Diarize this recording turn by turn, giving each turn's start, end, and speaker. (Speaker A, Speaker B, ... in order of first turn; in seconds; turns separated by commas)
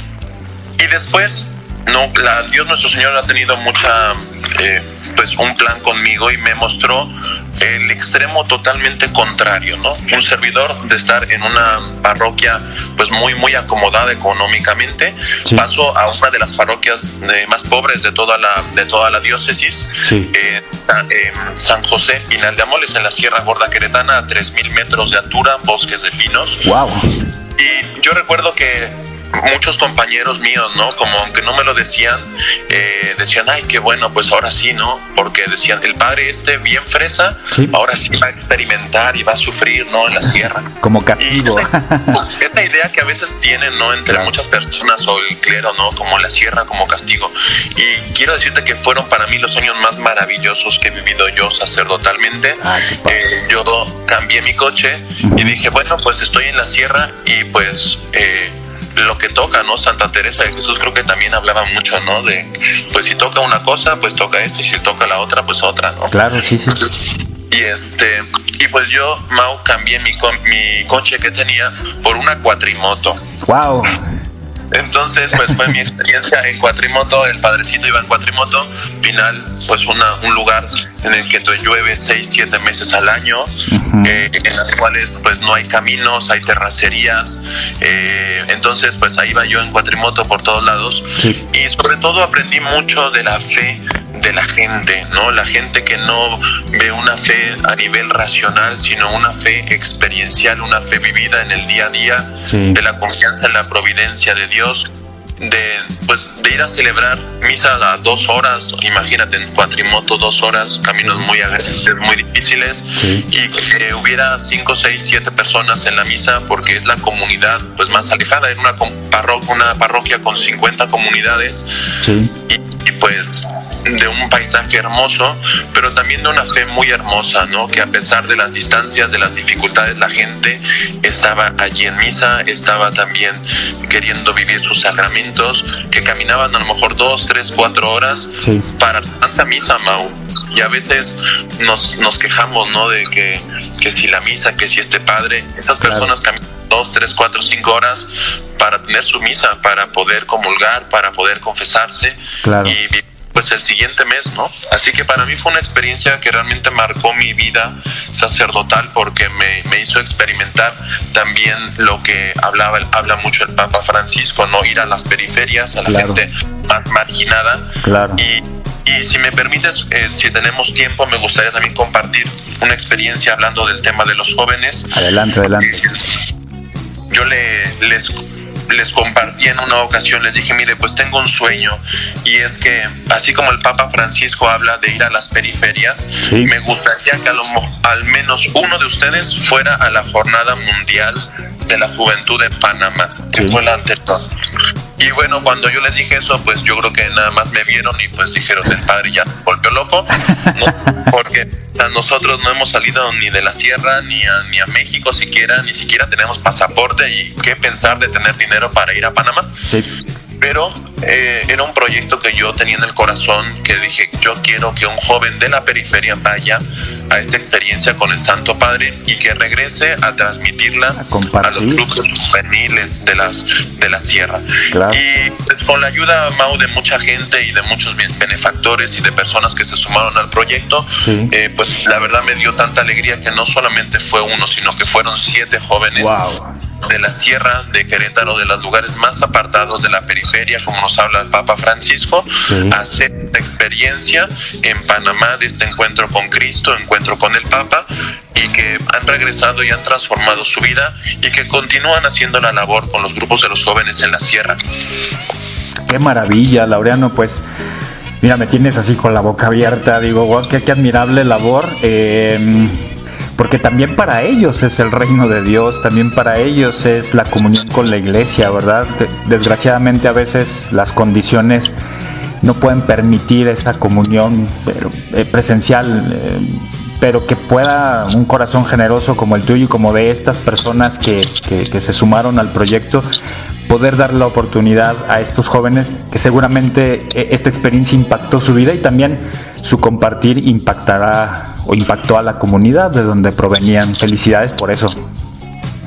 Speaker A: 0.8-26.6, Speaker B: 20.0-20.3, Speaker B: 26.6-27.1, Speaker A: 27.6-66.2, Speaker B: 40.8-42.2, Speaker B: 52.6-53.2, Speaker B: 55.2-55.6, Speaker B: 66.1-66.9, Speaker A: 67.5-73.2, Speaker B: 73.4-74.0, Speaker A: 74.7-104.9, Speaker B: 83.7-84.2, Speaker B: 102.5-102.8, Speaker A: 105.4-121.7, Speaker B: 113.0-113.3, Speaker B: 122.0-122.3, Speaker A: 122.5-174.9, Speaker B: 138.4-138.7, Speaker B: 145.8-146.1, Speaker B: 152.4-152.8, Speaker B: 165.9-166.2, Speaker B: 167.8-168.2, Speaker B: 174.9-175.9, Speaker A: 177.1-194.3, Speaker B: 186.3-186.5, Speaker B: 193.3-193.6, Speaker A: 195.0-209.6, Speaker B: 209.7-209.9, Speaker A: 210.4-236.2, Speaker B: 221.0-221.8, Speaker B: 224.7-225.0, Speaker B: 231.0-231.3, Speaker B: 235.9-236.6, Speaker A: 236.8-254.6, Speaker B: 242.5-242.8, Speaker B: 255.9-257.4, Speaker B: 258.2-271.8, Speaker B: 272.4-283.1, Speaker B: 283.7-295.0